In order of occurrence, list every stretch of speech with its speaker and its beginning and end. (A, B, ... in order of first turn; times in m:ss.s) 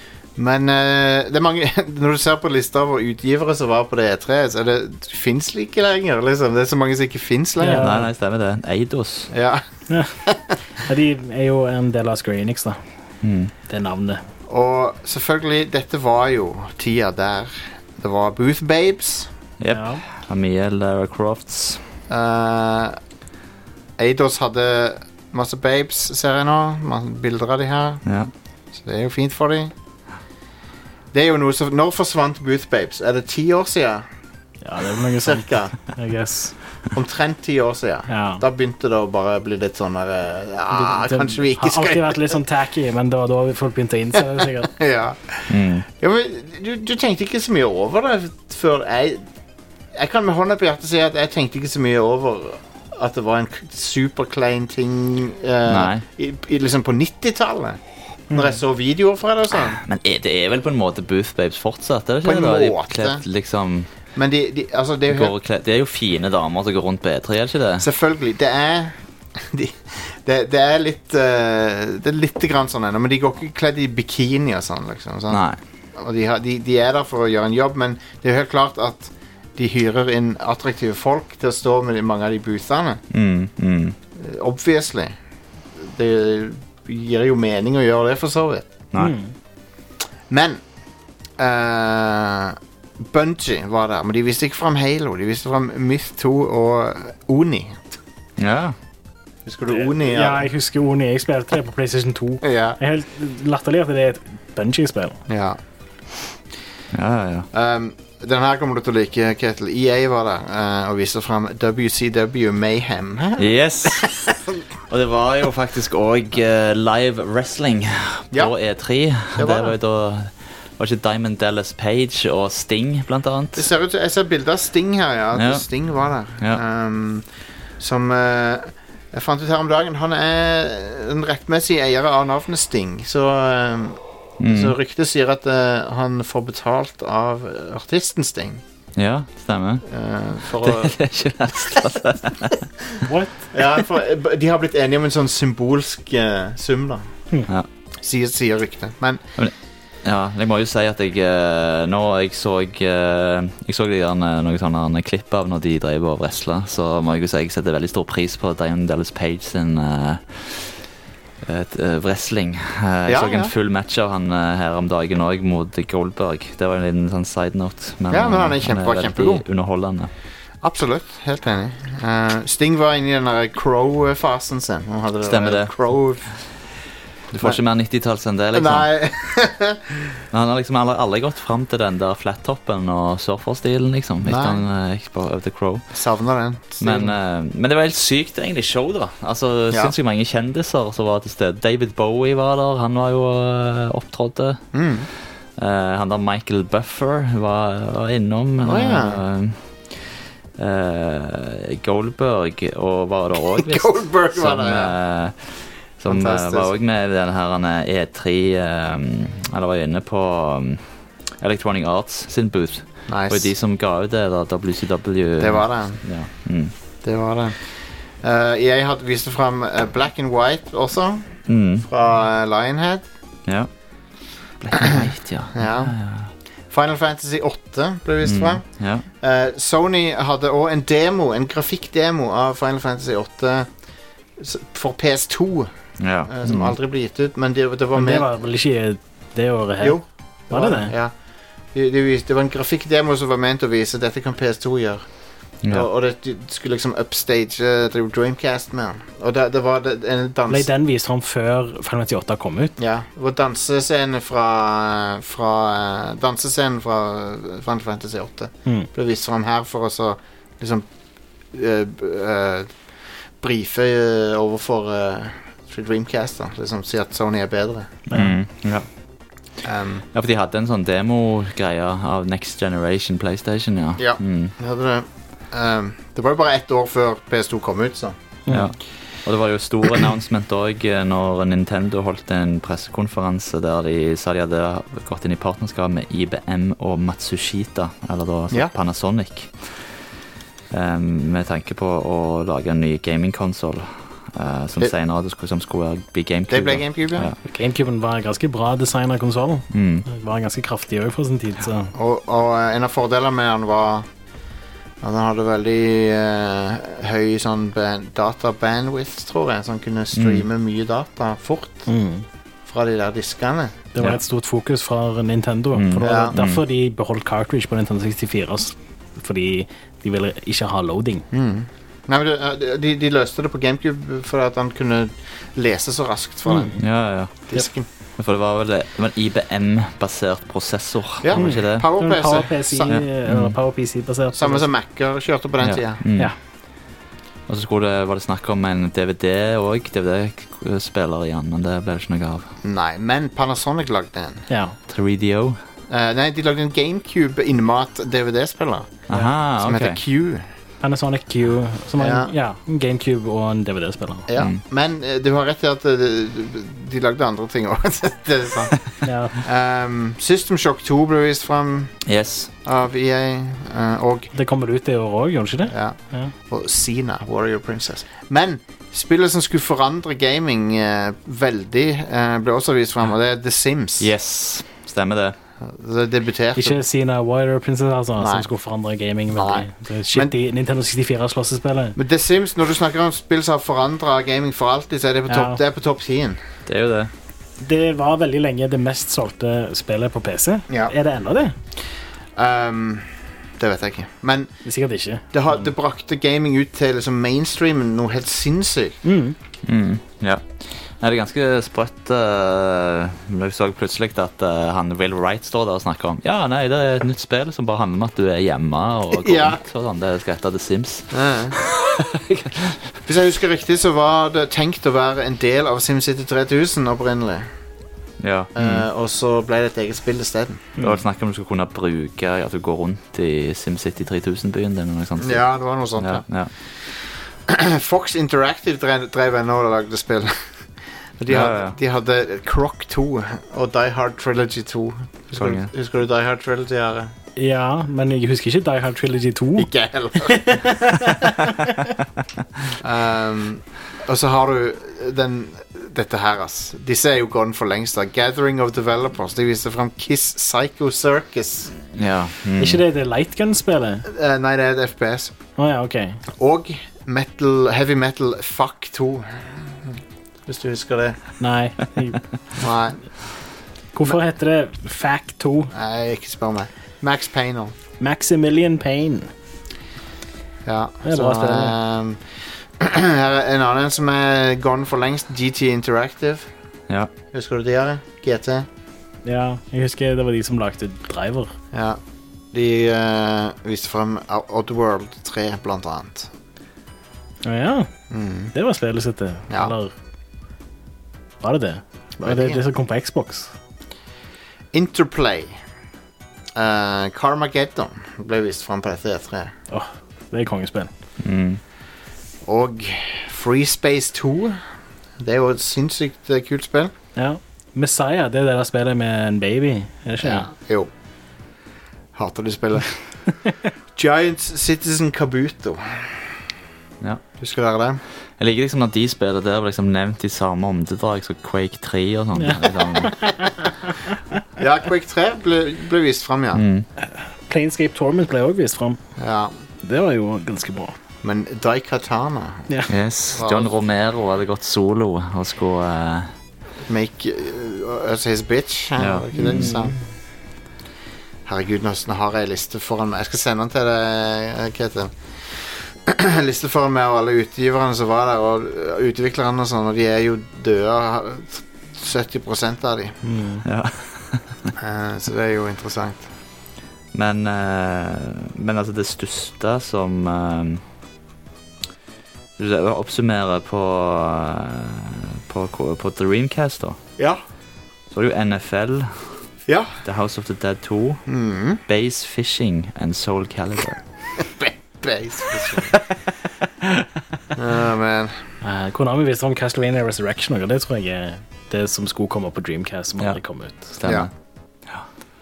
0:00.4-0:07.9 A
0:07.6-0:08.1 B
0:07.7-0:09.3 C
0:09.3-0:09.6 A
0:09.9-0:10.1 B
0:10.3-0:10.6 A
0:10.8-0:12.8 B
0:13.2-0:13.5 C
0:13.7-0:14.2 B
0:14.5-0:19.3 A
0:19.6-0:21.9 C
0:19.7-0:20.0 B
0:22.1-0:23.0 A
0:24.0-0:28.0 A
0:28.0-0:28.3 C
0:28.7-0:29.7 A
0:31.1-0:34.0 A
0:34.6-0:36.6 B
0:35.2-0:35.8 A
0:36.9-0:42.3 A
0:38.1-0:38.4 B
0:40.7-0:44.7 B
0:44.7-0:49.2 A
0:45.5-0:45.8 C
0:49.9-0:57.8 A
0:55.7-0:56.0 C
0:58.3-0:58.6 B
0:58.3-0:59.8 A
0:59.5-1:03.9 C
1:02.2-1:03.2 A
1:04.1-1:05.3 A
1:05.1-1:07.9 C
1:07.8-1:15.4 A
1:15.3-1:15.6 C
1:16.0-1:23.0 A
1:23.1-1:24.0 C
1:24.2-1:25.1 A
1:25.8-1:28.7 A
1:29.0-1:29.3 B
1:30.3-1:30.6 A
1:31.4-1:37.8 A
1:38.4-1:38.8 C
1:39.4-1:40.4 A
1:39.7-1:45.2 B
1:42.4-1:42.8 A
1:45.3-1:45.6 A
1:46.9-1:47.5 C
1:47.5-1:54.4 A
1:53.4-1:54.1 C
1:54.9-2:03.7 C
1:58.3-1:59.7 A
2:03.6-2:07.2 A
2:05.3-2:06.6 C
2:07.8-2:18.6 A
2:14.4-2:14.8 C
2:18.9-2:19.8 C
2:19.9-2:21.0 A
2:20.5-2:22.6 C
2:23.0-2:23.4 B
2:23.5-2:27.1 A
2:28.0-2:29.2 A
2:29.4-2:40.9 C
2:41.4-2:50.1 C
2:43.1-2:43.5 A
2:48.1-2:49.4 A
2:50.6-2:56.4 A
2:55.2-2:56.1 C
2:57.3-2:59.0 C
2:58.5-3:00.0 A
3:00.3-3:05.9 C
3:04.2-3:04.6 A
3:05.9-3:07.1 A
3:06.8-3:14.8 C
3:14.7-3:15.1 A
3:15.6-3:36.7 C
3:18.6-3:19.2 A
3:23.6-3:24.9 A
3:26.1-3:26.7 A
3:33.1-3:33.5 A
3:35.4-3:36.3 A
3:37.0-3:43.1 A
3:41.5-3:41.9 C
3:43.4-3:46.3 C
3:45.5-3:46.0 A
3:46.7-3:53.7 A
3:48.2-3:49.0 C
3:54.4-3:55.7 A
3:56.0-3:56.8 C
3:56.3-3:58.3 A
3:57.9-4:00.9 B
3:59.8-4:01.2 A
4:01.7-4:10.7 A
4:05.6-4:05.9 C
4:10.5-4:12.7 B
4:12.8-4:20.8 A
4:21.5-4:22.7 A
4:23.4-4:27.9 A
4:28.1-4:28.3 B
4:28.1-4:28.8 C
4:29.6-4:30.0 A
4:30.1-4:34.6 C
4:34.0-4:38.1 A
4:38.5-4:50.0 C
4:50.7-4:57.4 C
4:56.5-4:57.3 A
4:57.4-5:01.9 B
4:59.7-5:00.0 C
5:01.9-5:04.0 A
5:05.0-5:11.9 A
5:10.1-5:10.4 C
5:11.9-5:12.2 B
5:12.6-5:13.8 A
5:13.9-5:21.3 B
5:15.7-5:16.6 C
5:16.0-5:16.3 A
5:21.3-5:26.8 A
5:26.5-5:26.8 B
5:26.8-5:27.4 C
5:27.5-5:27.9 A
5:28.2-5:31.9 C
5:31.2-5:33.0 A
5:31.3-5:34.6 B
5:32.9-5:33.6 C
5:34.3-5:36.0 A
5:35.6-5:36.4 C
5:37.5-5:42.5 C
5:42.6-5:44.5 A
5:44.5-5:44.8 B
5:44.9-5:45.6 C
5:45.9-5:50.4 A
5:49.1-5:50.0 C
5:50.8-5:54.2 B
5:52.0-5:52.3 A
5:54.3-6:02.0 A
5:59.0-5:59.4 B
6:02.0-6:02.5 C
6:02.6-6:04.3 A
6:04.3-6:06.3 B
6:05.7-6:14.1 A
6:14.0-6:15.4 C
6:15.6-6:16.8 A
6:16.6-6:22.0 B
6:18.2-6:18.5 A
6:19.3-6:20.3 A
6:22.0-6:26.4 A
6:25.3-6:25.6 B
6:26.6-6:27.1 C
6:27.6-6:31.5 B
6:32.4-6:33.1 A
6:33.6-6:34.6 A
6:34.6-6:35.7 B
6:35.3-6:39.0 A
6:39.0-6:39.4 B
6:39.6-6:53.0 C
6:49.1-6:49.6 A
6:51.1-6:51.6 A
6:53.0-6:57.5 A
6:58.2-6:58.8 C
6:58.5-7:00.7 A
7:00.8-7:06.5 C
7:05.2-7:06.9 A
7:07.5-7:10.4 A
7:11.2-7:17.1 A
7:11.3-7:11.8 C
7:15.3-7:15.7 C
7:17.4-7:19.7 B
7:19.6-7:20.8 A
7:20.3-7:21.3 B
7:22.8-7:31.7 A
7:31.9-7:32.8 C
7:32.6-7:34.0 B
7:34.1-7:35.3 A
7:35.6-7:36.2 B
7:36.4-7:41.3 A
7:41.4-7:42.2 B
7:42.6-7:43.1 A
7:43.9-7:45.7 B
7:45.7-7:47.7 A
7:48.0-7:49.3 B
7:50.6-7:56.5 A
7:51.0-7:51.8 B
7:57.3-7:58.7 A
7:59.2-8:01.5 B
8:01.7-8:02.0 A
8:02.5-8:06.3 A
8:07.4-8:07.9 B
8:08.1-8:08.5 A
8:08.5-8:09.9 B
8:09.5-8:09.8 A
8:11.4-8:13.5 B
8:12.2-8:12.6 A
8:14.7-8:15.6 A
8:16.5-8:19.5 A
8:19.7-8:20.9 B
8:21.2-8:21.6 C
8:22.5-8:24.6 A
8:25.2-8:26.9 A
8:27.2-8:30.5 B
8:30.2-8:30.9 A
8:32.1-8:33.0 A
8:34.0-8:36.3 A
8:37.4-8:38.0 A
8:38.4-8:43.2 C
8:42.3-8:43.7 B
8:44.6-8:46.6 A
8:46.5-8:46.9 C
8:47.1-8:49.0 B
8:49.2-8:49.5 A
8:49.8-8:51.0 B
8:51.2-8:52.7 A
8:52.9-8:56.3 C
8:53.3-8:53.8 A
8:56.8-9:00.0 A
8:59.0-8:59.7 C
8:59.3-9:00.0 B
9:01.5-9:13.2 A
9:13.2-9:13.6 B
9:13.6-9:14.6 C
9:14.8-9:16.3 A
9:17.1-9:20.8 C
9:22.6-9:27.0 C
9:28.1-9:29.4 C
9:30.0-9:31.2 C
9:31.3-9:31.8 A
9:31.8-9:34.0 C
9:34.6-9:36.0 A
9:37.5-9:38.4 A
9:38.6-9:44.0 B
9:43.2-9:44.3 C
9:44.0-9:44.3 A